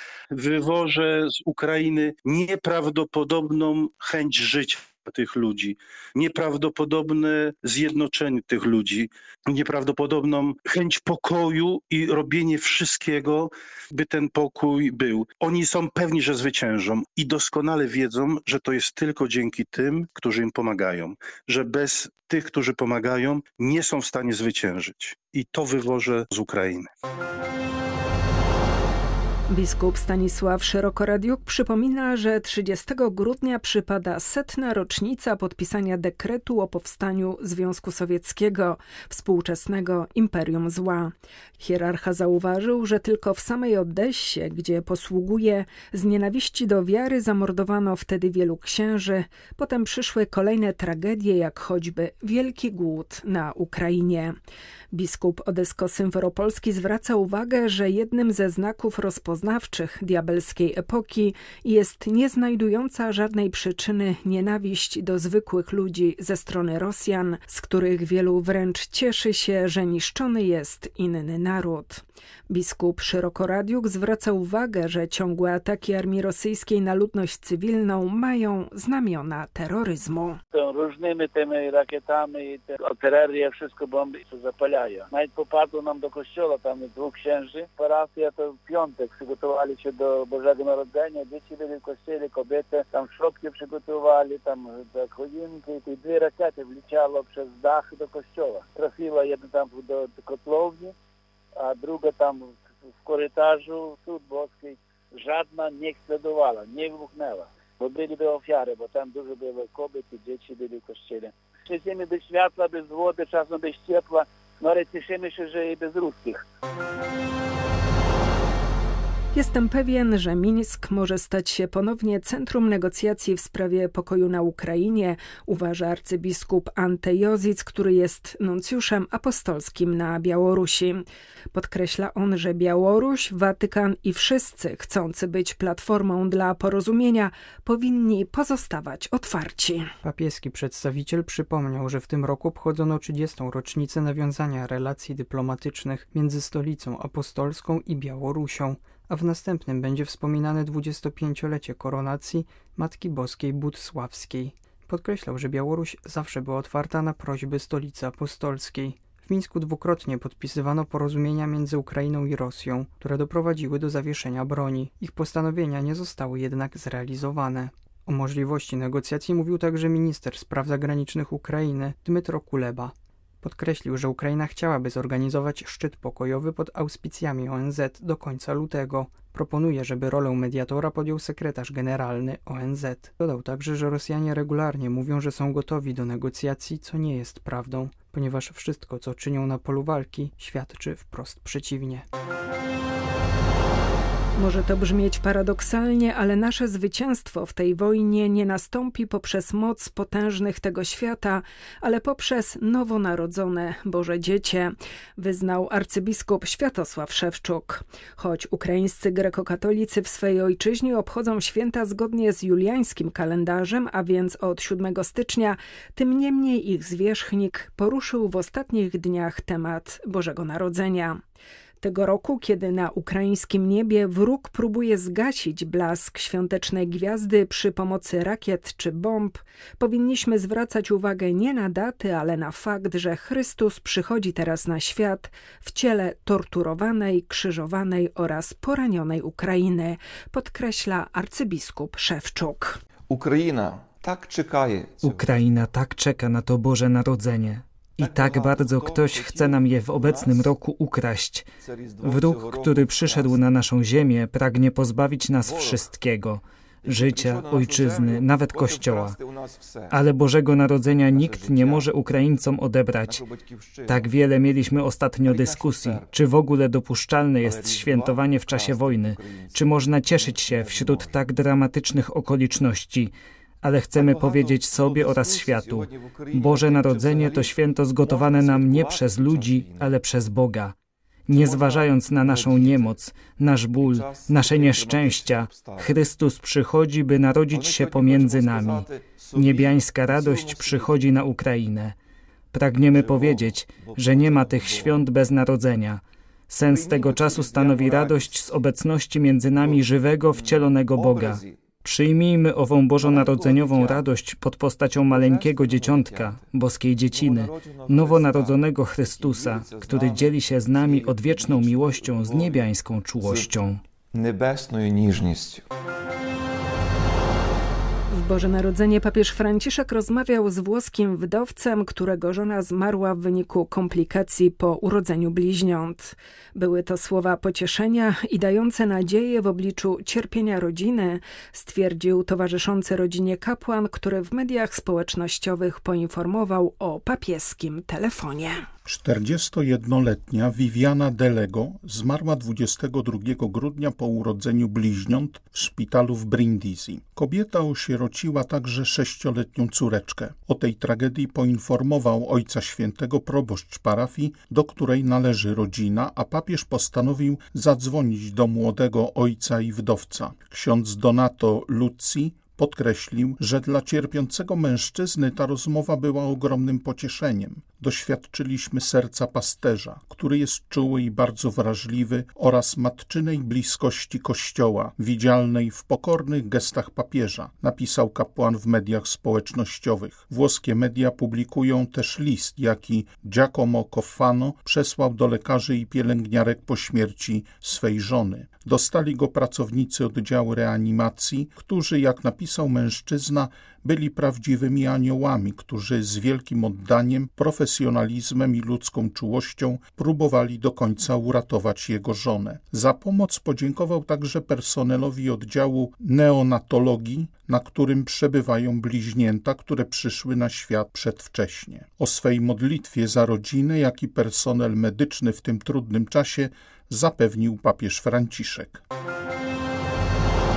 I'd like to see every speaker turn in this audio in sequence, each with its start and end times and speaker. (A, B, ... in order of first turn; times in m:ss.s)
0:00.3-0:26.9 A
0:29.5-0:54.4 B
0:54.9-1:20.4 B
1:20.5-1:40.9 C
1:41.6-1:56.4 C
1:59.3-2:19.9 B
2:20.0-3:12.0 D
3:14.4-3:41.2 B
3:41.8-4:02.8 B
4:03.1-4:05.4 E
4:05.0-4:11.5 F
4:08.0-4:10.5 E
4:11.6-4:13.4 E
4:12.0-4:19.2 F
4:15.4-4:15.9 E
4:16.8-4:20.0 E
4:19.9-4:23.2 F
4:21.1-4:22.0 E
4:23.0-4:24.2 E
4:23.9-4:40.7 F
4:25.2-4:26.2 E
4:27.4-4:31.3 E
4:34.0-4:40.0 E
4:41.3-4:52.0 F
4:41.3-4:43.0 E
4:43.7-4:46.0 E
4:47.5-4:51.1 E
4:52.5-5:13.8 F
4:52.9-4:55.1 E
4:56.7-4:58.6 E
4:59.6-5:01.6 E
5:03.0-5:04.1 E
5:05.1-5:06.5 E
5:07.0-5:13.5 E
5:14.1-5:15.7 E
5:18.1-5:38.7 B
5:38.9-6:58.8 G